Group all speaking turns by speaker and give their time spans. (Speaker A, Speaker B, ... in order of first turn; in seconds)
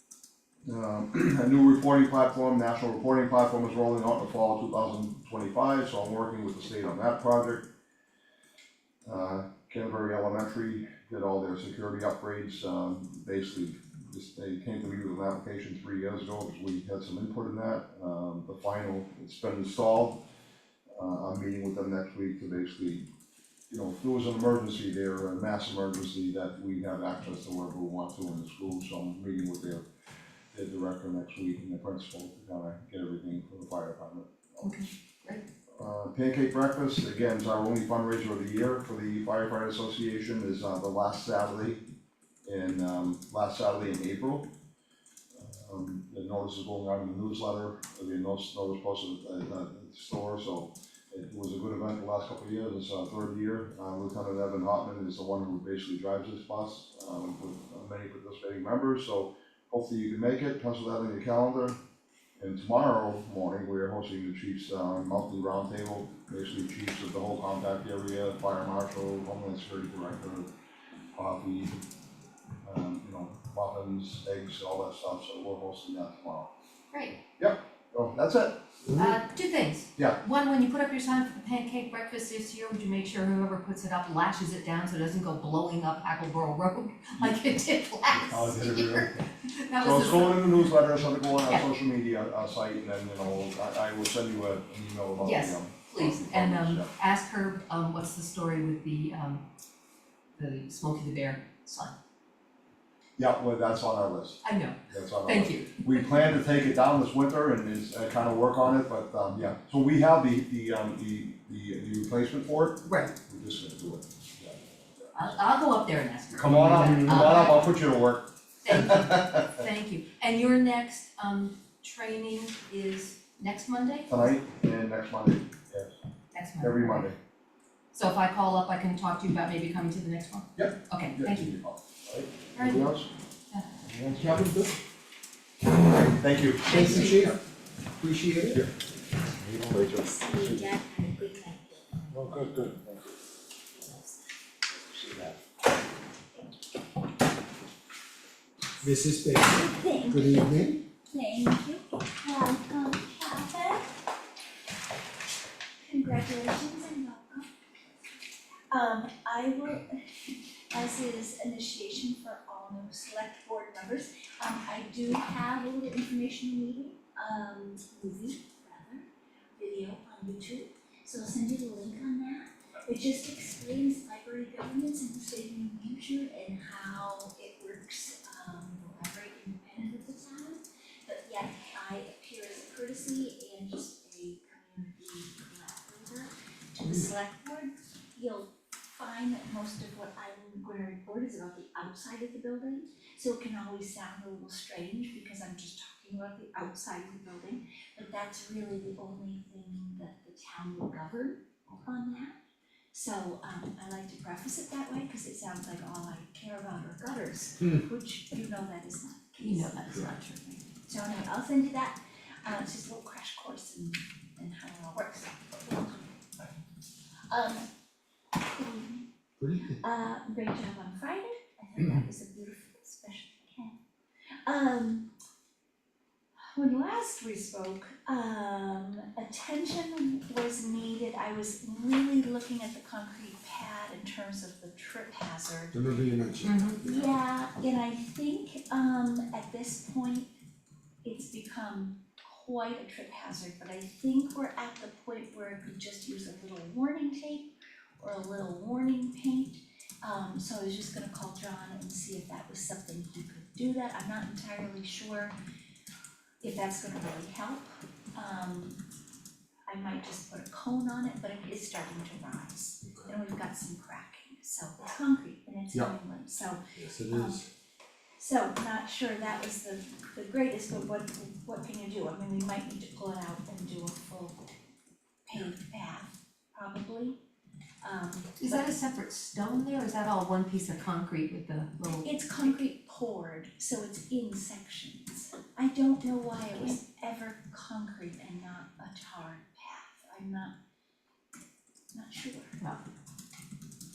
Speaker A: 0.7-7.7, 9.1-20.2, 20.9-23.1, 23.7-29.9, 30.5-34.8, 35.8-41.8, 42.5-44.5, 45.4-61.8, 62.4-70.5, 71.2-71.8, 72.6-76.5, 77.4-78.6, 88.1-96.9, 103.2-115.2, 116.3-119.6, 124.1-126.0, 126.6-127.2, 130.6-133.1, 133.9-134.5, 136.1-137.1
Speaker B: 34.6-35.4, 76.9-77.2, 79.0-90.6, 95.2-99.4, 100.4-101.9, 104.4-105.9, 112.8-113.2, 115.1-117.8, 118.6-124.3, 126.3-127.1, 127.9-131.5, 132.6-132.9, 136.7-137.3, 209.4-210.4, 236.4-236.8, 278.4-282.5
Speaker C: 116.8-117.2, 134.2-134.8, 136.7-137.4, 138.0-138.6, 139.6-139.9, 142.1-143.0, 148.8-150.8, 219.4-219.8, 235.7-237.1, 266.8-267.5
Speaker D: 139.9-142.3, 143.7-144.3, 149.4-153.9, 155.8-157.5, 158.7-202.3, 202.9-216.1, 217.3-217.7, 218.4-219.1, 219.6-223.7, 224.5-225.1, 226.5-235.8, 236.8-240.3, 241.0-255.3, 256.4-258.8, 259.7-267.4, 268.2-274.4, 275.3-277.2, 277.8-278.8, 282.0-290.5, 291.9-292.6